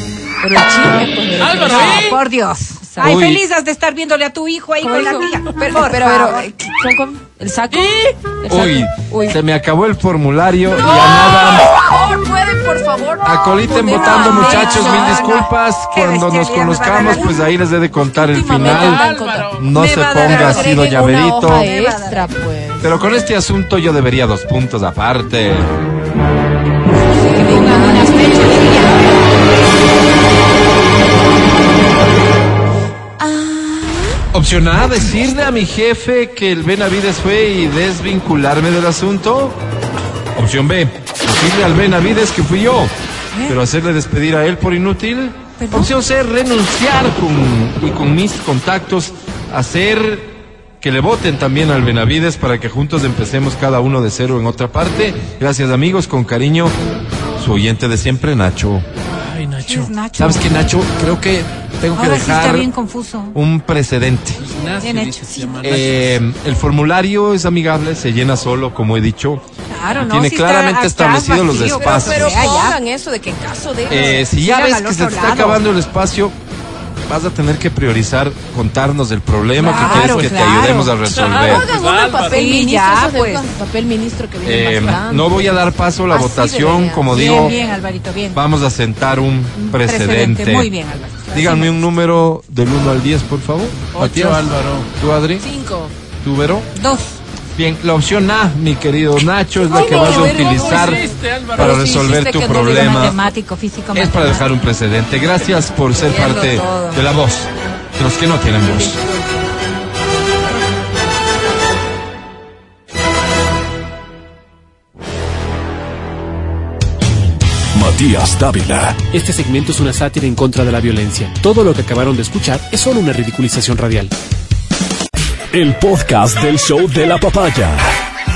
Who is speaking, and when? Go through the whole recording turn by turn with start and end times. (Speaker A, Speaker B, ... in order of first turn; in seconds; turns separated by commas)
Speaker A: 0.4-2.2, Speaker B: 1.4-2.2, Speaker C: 1.6-6.5, Speaker A: 2.9-3.2, Speaker D: 3.0-3.4, Speaker A: 4.8-9.4, Speaker D: 8.5-11.8, Speaker A: 10.7-15.4, Speaker D: 13.2-21.7, Speaker C: 13.7-17.4, Speaker A: 18.1-19.5, Speaker B: 18.5-19.8, Speaker C: 19.7-22.3, Speaker A: 20.0-23.0, Speaker D: 22.8-25.8, Speaker C: 27.0-29.3, Speaker A: 27.1-29.3, Speaker A: 33.2-34.2, Speaker D: 34.3-39.6, Speaker D: 40.4-42.9, Speaker C: 43.3-43.6, Speaker D: 43.5-56.8, Speaker C: 45.6-45.9, Speaker D: 57.4-58.9, Speaker B: 59.1-59.9, Speaker C: 59.6-60.7, Speaker D: 60.2-62.7, Speaker C: 61.9-63.4, Speaker D: 63.3-64.5, Speaker B: 64.4-66.2, Speaker C: 64.8-65.3, Speaker A: 65.3-65.8, Speaker D: 65.6-69.4, Speaker C: 69.7-72.8, Speaker D: 70.0-72.6, Speaker A: 71.4-74.3, Speaker D: 73.9-76.4, Speaker C: 74.0-75.6, Speaker D: 77.1-81.7, Speaker C: 79.6-81.0, Speaker A: 79.7-80.3, Speaker B: 81.1-82.5, Speaker A: 81.1-87.8, Speaker C: 82.2-83.5, Speaker D: 84.4-87.6, Speaker C: 87.1-88.4, Speaker D: 88.3-90.7, Speaker C: 89.6-91.8, Speaker D: 91.3-95.5, Speaker B: 93.9-94.9, Speaker A: 95.4-96.0, Speaker D: 96.2-96.7, Speaker C: 96.7-97.2, Speaker D: 97.5-103.2, Speaker A: 99.6-101.0, Speaker C: 99.7-100.6, Speaker B: 100.1-101.9, Speaker A: 101.6-103.1, Speaker C: 102.5-104.5, Speaker D: 103.9-109.0, Speaker A: 106.0-107.0, Speaker A: 108.6-109.5, Speaker E: 117.7-119.0, Speaker F: 119.0-124.1, Speaker E: 125.5-127.9